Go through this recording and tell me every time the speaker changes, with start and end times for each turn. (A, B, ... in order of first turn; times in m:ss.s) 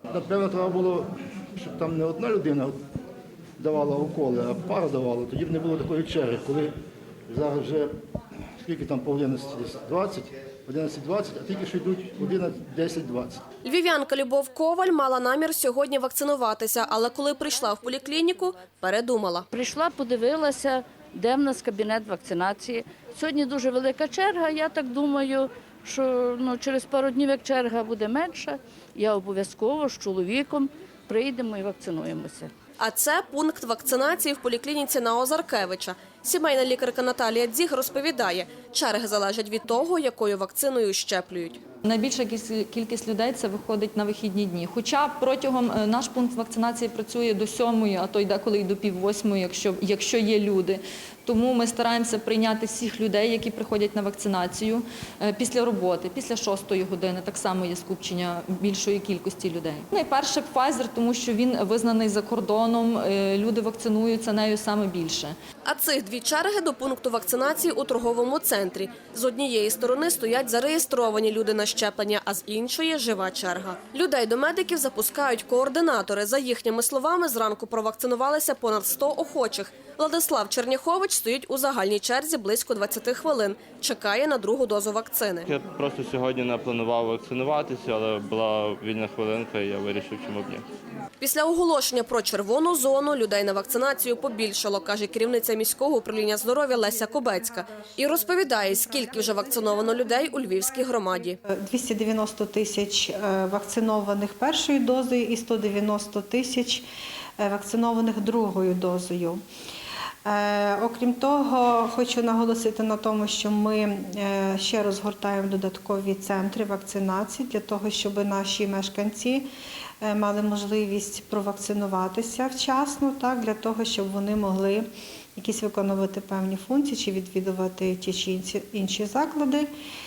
0:00.1-0:02.8 A
0:03.6-0:06.7 A
0:07.3-0:07.9 A
0:08.6-0:13.4 A
0:13.6-0:19.5 B
0:19.5-0:32.5 C
0:32.8-0:41.6 B
0:41.8-1:05.3 D
1:05.6-1:25.5 B
1:25.5-1:30.6 E
1:31.2-1:41.4 B
1:41.5-1:46.8 F
1:47.4-1:49.4 F
1:50.2-1:59.5 F
2:00.0-2:09.7 F